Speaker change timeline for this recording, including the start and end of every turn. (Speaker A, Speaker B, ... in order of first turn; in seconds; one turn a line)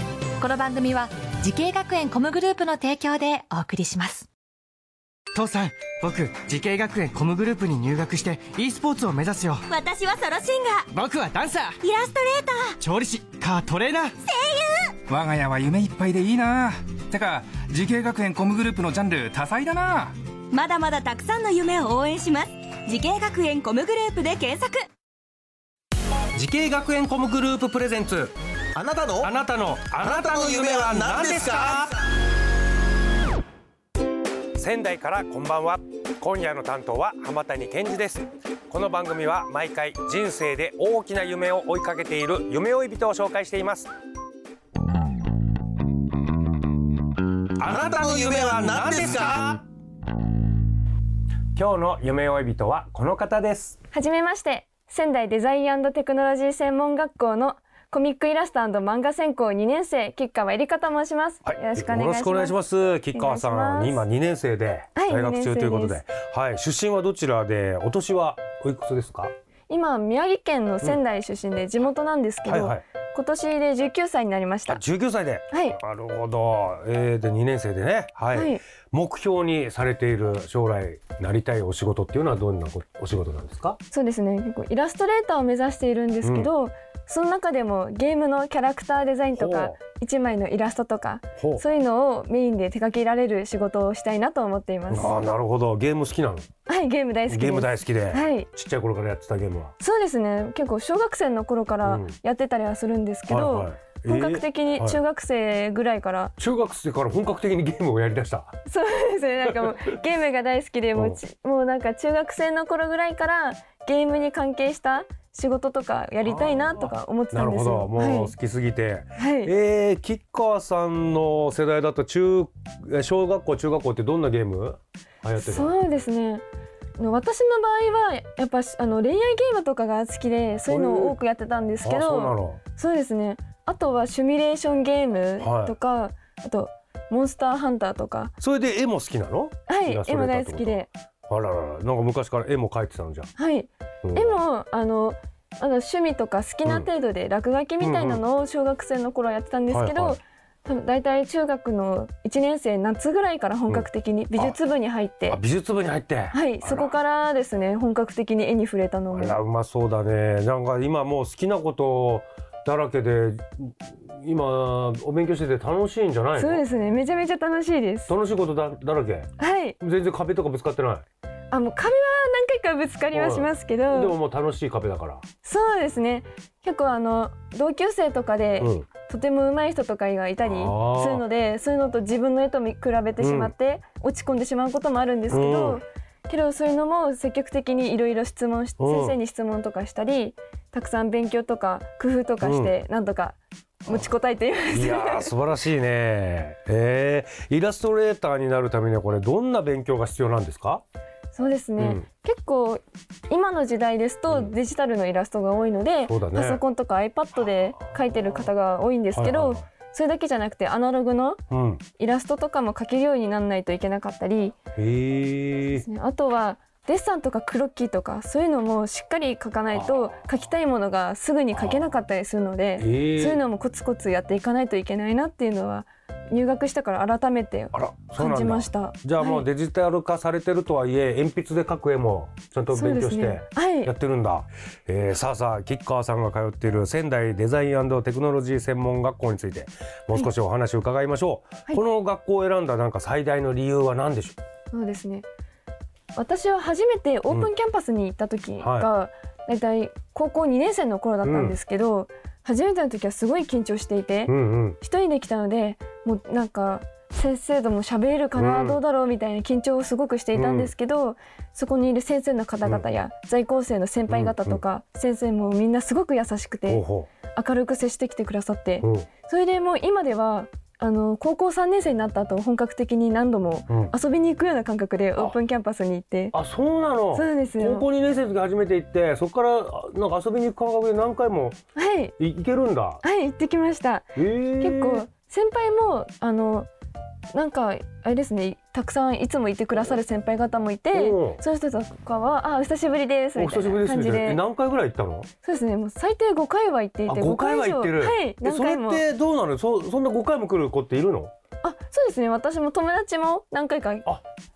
Speaker A: 0.4-4.3
Speaker B: 5.3-9.6
Speaker C: 9.7-10.9
Speaker B: 11.1-11.7
Speaker C: 11.8-12.8
Speaker B: 13.1-14.1
Speaker C: 14.2-14.9
Speaker D: 15.1-20.1
Speaker C: 20.5-24.8
Speaker E: 26.4-28.3
Speaker F: 28.8-29.3
Speaker E: 29.1-31.9
Speaker F: 30.0-31.9
Speaker E: 34.6-43.9
Speaker E: 47.6-49.6
Speaker F: 47.7-49.6
Speaker E: 51.6-53.8
Speaker G: 53.9-62.6
Speaker E: 61.5-69.3
Speaker G: 63.1-64.0
Speaker G: 65.0-66.0
Speaker G: 69.7-74.8
Speaker E: 72.5-72.8
Speaker E: 74.7-83.8
Speaker G: 75.5-75.8
Speaker G: 78.3-78.6
Speaker G: 83.9-95.2
Speaker E: 86.2-86.5
Speaker E: 89.3-89.8
Speaker E: 91.4-91.6
Speaker E: 94.9-96.5
Speaker G: 96.7-98.5
Speaker E: 97.3-99.7
Speaker G: 99.8-106.3
Speaker E: 101.8-102.2
Speaker E: 103.3-105.0
Speaker E: 106.4-108.5
Speaker G: 108.7-118.3
Speaker E: 109.5-109.7
Speaker E: 116.2-125.8
Speaker G: 119.2-119.5
Speaker G: 125.4-126.4
Speaker G: 127.0-138.3
Speaker E: 130.7-131.2
Speaker E: 131.8-132.6
Speaker E: 135.4-135.8
Speaker E: 138.4-143.3
Speaker G: 139.7-140.9
Speaker G: 143.4-155.4
Speaker E: 144.0-144.4
Speaker E: 147.8-148.2
Speaker E: 149.7-150.2
Speaker E: 153.7-154.6
Speaker E: 155.3-156.9
Speaker G: 156.3-159.4
Speaker E: 159.1-166.6
Speaker G: 166.4-168.1
Speaker E: 168.1-171.0
Speaker G: 169.4-169.8
Speaker G: 171.5-174.2
Speaker E: 173.1-175.2
Speaker G: 175.4-195.3
Speaker E: 178.6-178.9
Speaker E: 180.4-181.2
Speaker E: 183.2-183.5
Speaker E: 185.3-185.8
Speaker E: 188.8-189.2
Speaker E: 192.4-192.8
Speaker E: 194.7-200.8
Speaker G: 201.3-211.4
Speaker E: 201.8-202.1
Speaker E: 204.3-204.5
Speaker E: 206.0-206.6
Speaker E: 209.2-209.6
Speaker E: 211.5-211.8
Speaker G: 212.0-214.6
Speaker E: 214.8-215.8
Speaker G: 215.7-229.5
Speaker E: 219.7-220.3
Speaker E: 221.5-221.8
Speaker E: 222.8-223.4
Speaker E: 227.7-244.4
Speaker G: 232.7-233.9
Speaker G: 244.7-245.3
Speaker G: 246.2-276.4
Speaker E: 248.6-248.9
Speaker E: 251.2-251.6
Speaker E: 254.3-254.8
Speaker E: 258.4-258.8
Speaker E: 260.3-260.7
Speaker E: 264.1-264.6
Speaker E: 266.7-267.1
Speaker E: 268.8-269.1
Speaker E: 273.7-273.9
Speaker E: 276.3-281.6
Speaker G: 277.1-277.9
Speaker G: 281.8-282.1
Speaker E: 282.2-283.0
Speaker G: 283.0-286.7
Speaker E: 284.2-285.1
Speaker G: 287.3-294.4
Speaker E: 290.9-291.4
Speaker E: 293.4-295.3
Speaker G: 295.4-299.0
Speaker E: 297.1-301.3
Speaker G: 301.6-304.1